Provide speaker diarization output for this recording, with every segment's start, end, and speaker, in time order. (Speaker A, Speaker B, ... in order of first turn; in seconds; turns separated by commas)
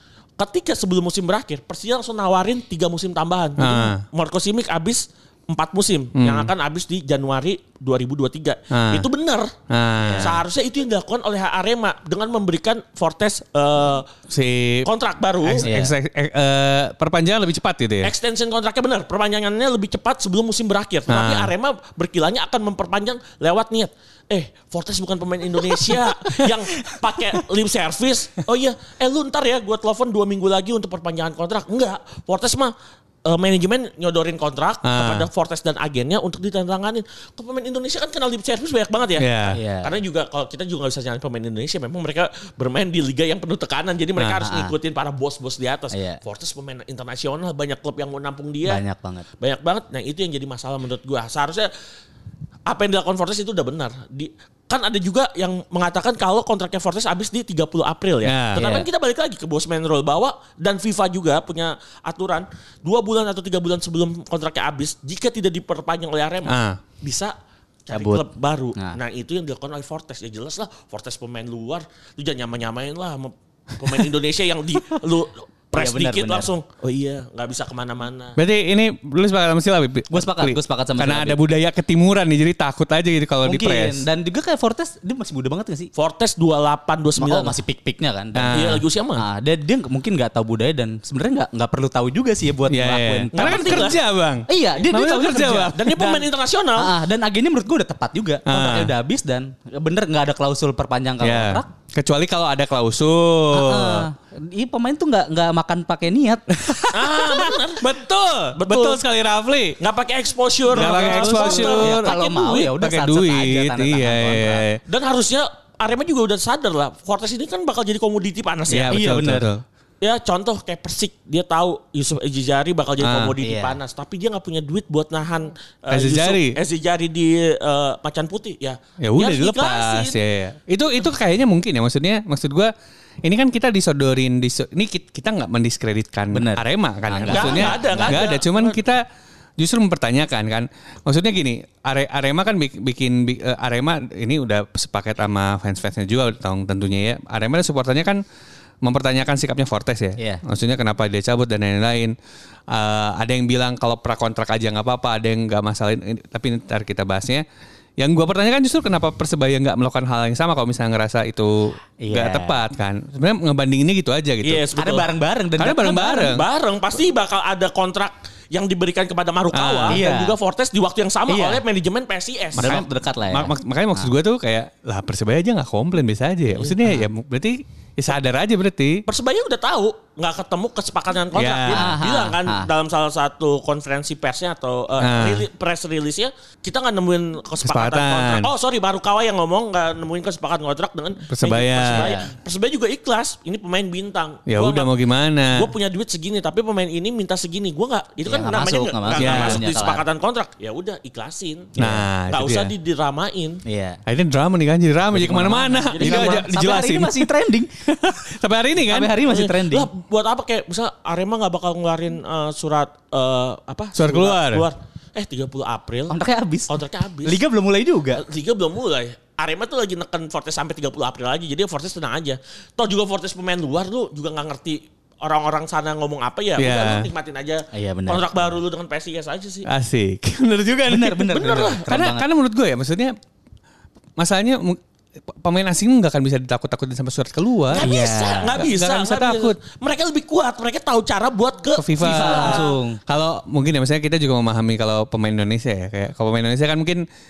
Speaker A: 0.4-9.5, Speaker B: 3.6-4.0, Speaker B: 6.2-6.5, Speaker B: 8.7-9.0, Speaker B: 9.7-10.4, Speaker C: 10.0-10.3, Speaker A: 10.2-14.1, Speaker B: 14.3-14.9, Speaker A: 14.8-15.7, Speaker B: 15.4-18.1, Speaker C: 15.6-15.9, Speaker A: 18.0-32.7, Speaker B: 21.1-21.5, Speaker A: 33.2-48.8, Speaker B: 34.8-35.3, Speaker B: 39.2-39.6, Speaker C: 39.5-39.9, Speaker B: 44.2-44.4, Speaker C: 44.4-44.7, Speaker C: 45.9-46.2, Speaker C: 48.6-49.2, Speaker A: 49.4-51.7, Speaker A: 52.7-67.3, Speaker B: 58.2-58.6, Speaker C: 58.6-58.9, Speaker B: 66.5-66.8, Speaker A: 67.9-78.4, Speaker C: 67.9-68.2, Speaker C: 75.7-76.5, Speaker B: 78.4-84.0, Speaker C: 80.1-81.4, Speaker C: 83.4-85.9, Speaker A: 86.0-87.5, Speaker C: 87.2-88.6, Speaker B: 88.3-88.8, Speaker A: 88.5-89.2, Speaker C: 89.2-93.9, Speaker B: 92.7-95.8, Speaker A: 93.3-94.0, Speaker C: 94.5-96.2, Speaker A: 95.7-96.9, Speaker C: 96.8-101.7, Speaker B: 98.5-98.9, Speaker B: 101.2-104.1, Speaker C: 103.5-106.8, Speaker B: 106.6-109.8, Speaker A: 106.9-107.9, Speaker A: 108.5-109.0, Speaker A: 109.8-112.7, Speaker B: 110.7-114.8, Speaker C: 110.8-114.6, Speaker A: 114.9-119.0, Speaker B: 118.7-119.6, Speaker C: 118.9-119.5, Speaker A: 120.0-130.2, Speaker B: 123.0-123.3, Speaker C: 123.4-123.8, Speaker B: 125.9-126.6, Speaker B: 129.0-132.7, Speaker B: 133.2-139.0, Speaker C: 136.3-138.2, Speaker A: 137.2-138.8, Speaker B: 139.6-148.2, Speaker B: 148.8-152.1, Speaker B: 152.7-157.4, Speaker B: 158.0-164.6, Speaker C: 162.0-162.6, Speaker A: 164.4-165.1, Speaker C: 164.8-166.3, Speaker B: 165.6-166.4, Speaker A: 166.2-172.8, Speaker B: 169.5-170.0, Speaker C: 169.9-170.3, Speaker C: 171.3-171.6, Speaker B: 172.5-179.0, Speaker C: 172.6-174.1, Speaker C: 176.6-177.0, Speaker A: 179.1-194.9, Speaker B: 181.3-181.9, Speaker C: 181.7-182.7, Speaker B: 185.0-185.5, Speaker B: 187.6-188.5, Speaker B: 191.3-192.1, Speaker C: 191.9-192.2, Speaker B: 194.5-195.7, Speaker A: 195.5-203.6, Speaker C: 198.2-200.0, Speaker B: 199.1-199.6, Speaker B: 201.8-202.7, Speaker C: 203.6-204.0, Speaker B: 204.1-207.3, Speaker C: 205.1-207.7, Speaker A: 205.9-206.5, Speaker B: 207.9-209.2, Speaker C: 208.8-209.9, Speaker A: 209.2-216.1, Speaker B: 214.0-214.7, Speaker C: 216.1-216.7, Speaker A: 216.7-217.4, Speaker C: 217.2-218.2, Speaker A: 218.2-229.7, Speaker B: 226.6-227.1, Speaker C: 227.7-228.6, Speaker B: 229.7-233.1, Speaker C: 230.9-232.2, Speaker A: 231.3-231.8, Speaker B: 234.2-237.9, Speaker A: 237.7-242.7, Speaker C: 237.8-238.6, Speaker B: 238.6-239.6, Speaker B: 241.8-247.0, Speaker C: 242.0-243.0